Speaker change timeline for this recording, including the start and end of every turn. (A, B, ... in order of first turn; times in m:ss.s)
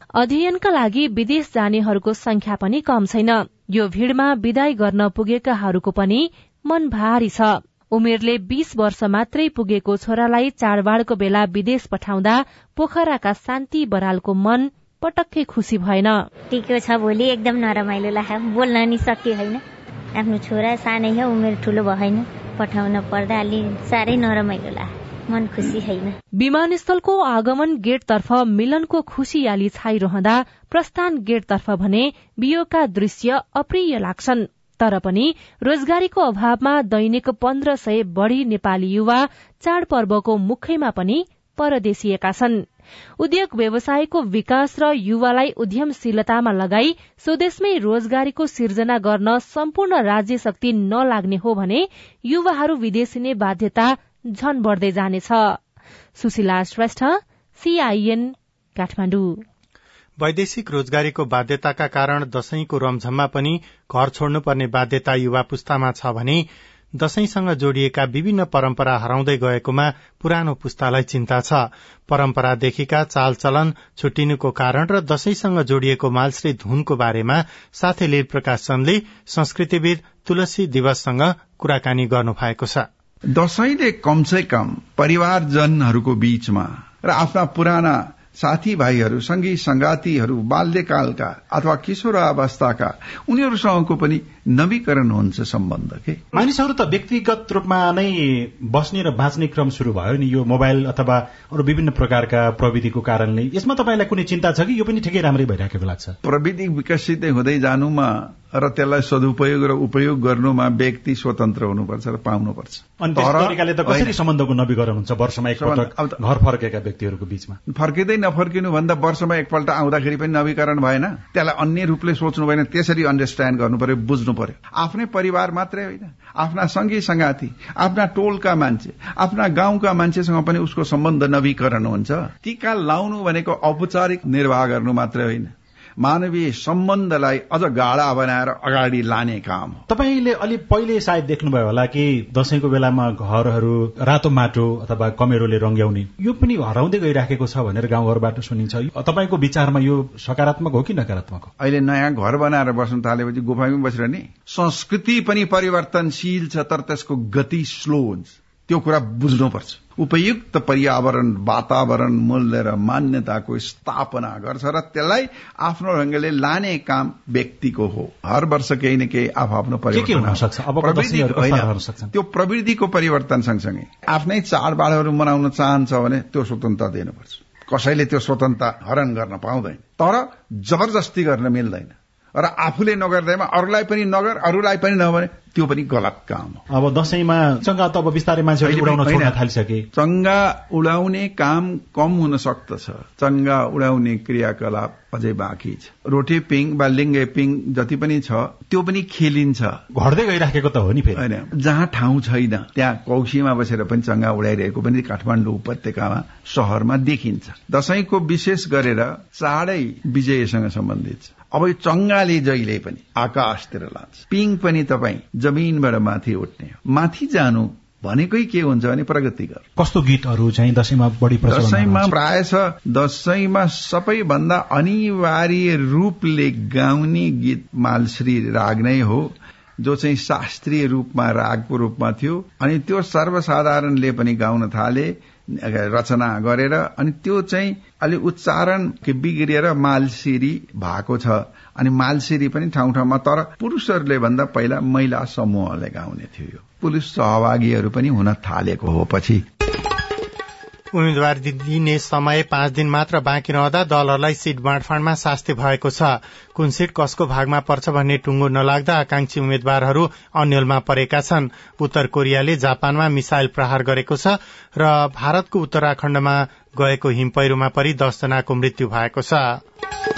0:00.2-0:16.2 A
0:16.5-0:19.6 B
0:20.2-0:26.2 B
0:26.4-0:42.6 A
0:43.2-0:55.6 A
0:56.2-0:59.4 A
1:00.2-1:06.5 C
1:07.0-1:22.9 C
1:23.3-1:36.2 D
1:36.3-1:46.2 E
1:46.2-1:54.2 D
1:53.0-1:57.6 E
1:55.6-1:56.2 D
1:57.7-2:19.8 D
2:19.9-2:31.5 E
2:31.6-3:06.6 D
2:49.9-2:52.1 E
3:06.7-3:09.8 E
3:08.6-3:09.4 D
3:10.0-3:19.8 D
3:20.0-3:21.2 E
3:21.2-3:39.7 D
3:39.8-3:42.1 E
3:41.5-4:09.4 D
4:10.9-4:29.6 C